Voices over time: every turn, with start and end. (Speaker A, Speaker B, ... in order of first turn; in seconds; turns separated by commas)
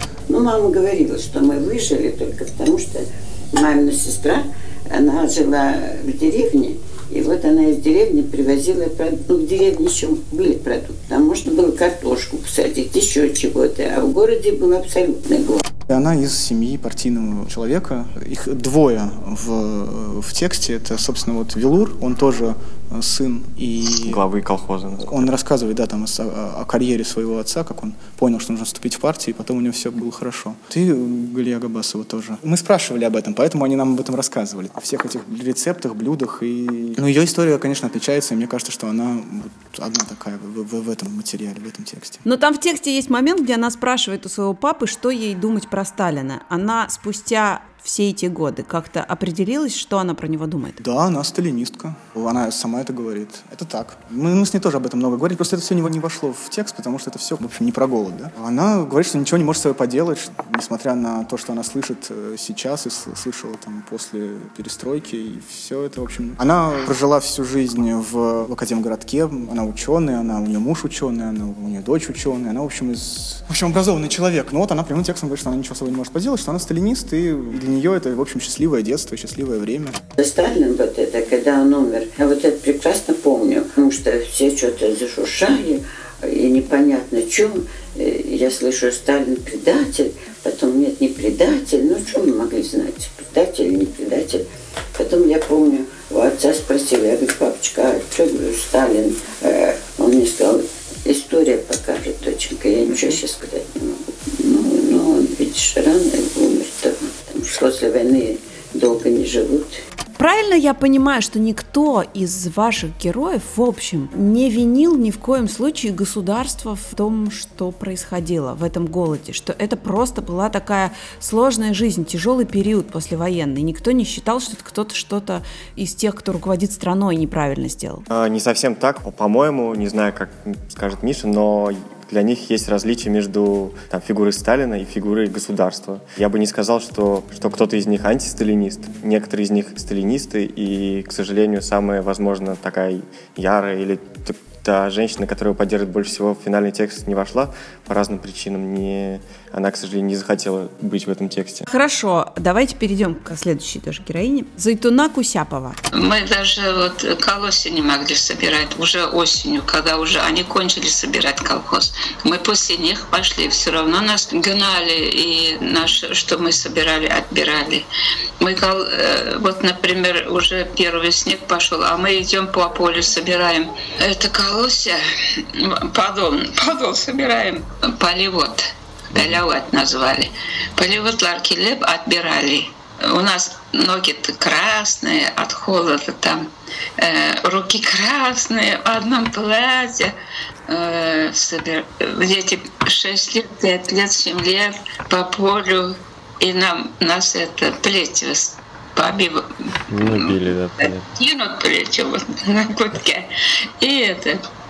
Speaker A: 0.3-15.6, Speaker B: 15.9-24.2, Speaker C: 24.0-25.3, Speaker B: 25.0-42.2, Speaker D: 42.2-50.8, Speaker B: 50.8-80.0, Speaker A: 80.2-94.4, Speaker A: 95.0-109.8, Speaker D: 110.2-128.0, Speaker C: 128.1-151.7, Speaker D: 151.7-155.8, Speaker E: 155.9-167.8, Speaker E: 168.4-190.1, Speaker E: 190.7-204.4, Speaker C: 199.9-201.0